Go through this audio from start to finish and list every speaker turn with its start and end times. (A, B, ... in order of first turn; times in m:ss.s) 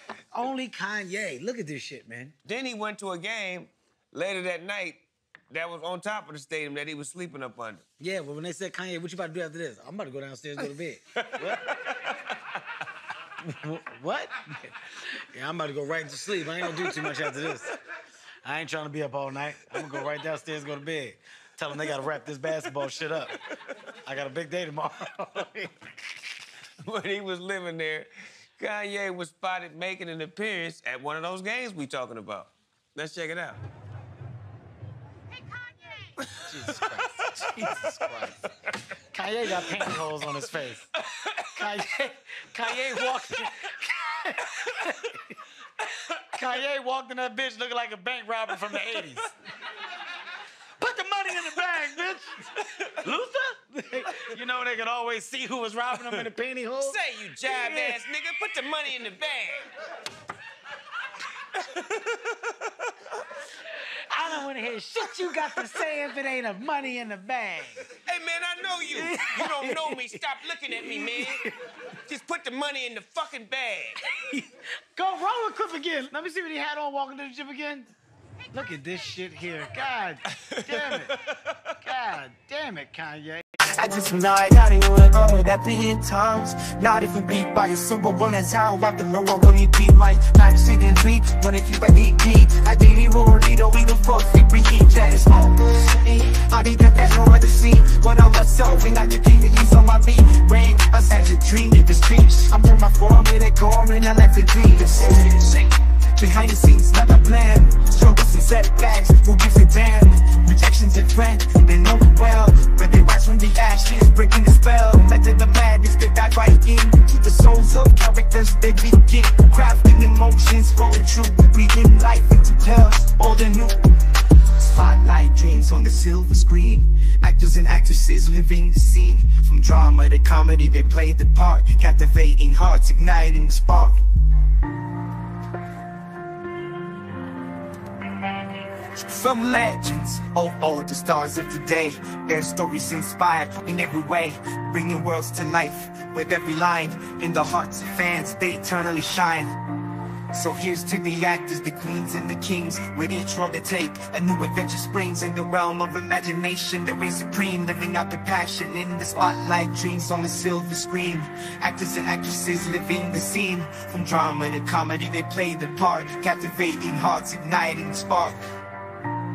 0:00.3-0:02.3 A
0:02.4-0:07.8 B
0:08.0-0:11.8 A
0:11.3-0:12.1 B
0:13.4-0:17.8 A
0:16.8-0:17.1 B
0:18.4-0:23.4 A
0:24.0-0:25.8 A
0:26.8-0:33.6 B
0:36.4-0:38.4 A
0:39.1-0:40.9 A
0:41.1-0:41.4 B
0:41.5-0:45.4 A
0:44.5-0:44.8 B
0:46.3-0:49.3 A
0:50.8-0:52.4 A
0:53.0-0:58.0 A
0:56.8-0:59.7 B
1:01.5-1:02.8 B
1:03.8-1:07.8 A
1:07.9-1:11.4 B
1:08.9-1:10.2 A
1:10.7-1:11.5 A
1:12.0-1:14.0 B
1:14.0-1:17.9 A
1:18.5-1:21.2 A
1:20.5-1:21.5 B
1:21.8-1:23.4 A
1:23.7-2:03.9 C
2:04.6-2:14.0 C
2:18.8-2:29.5 C
2:30.3-2:48.4 C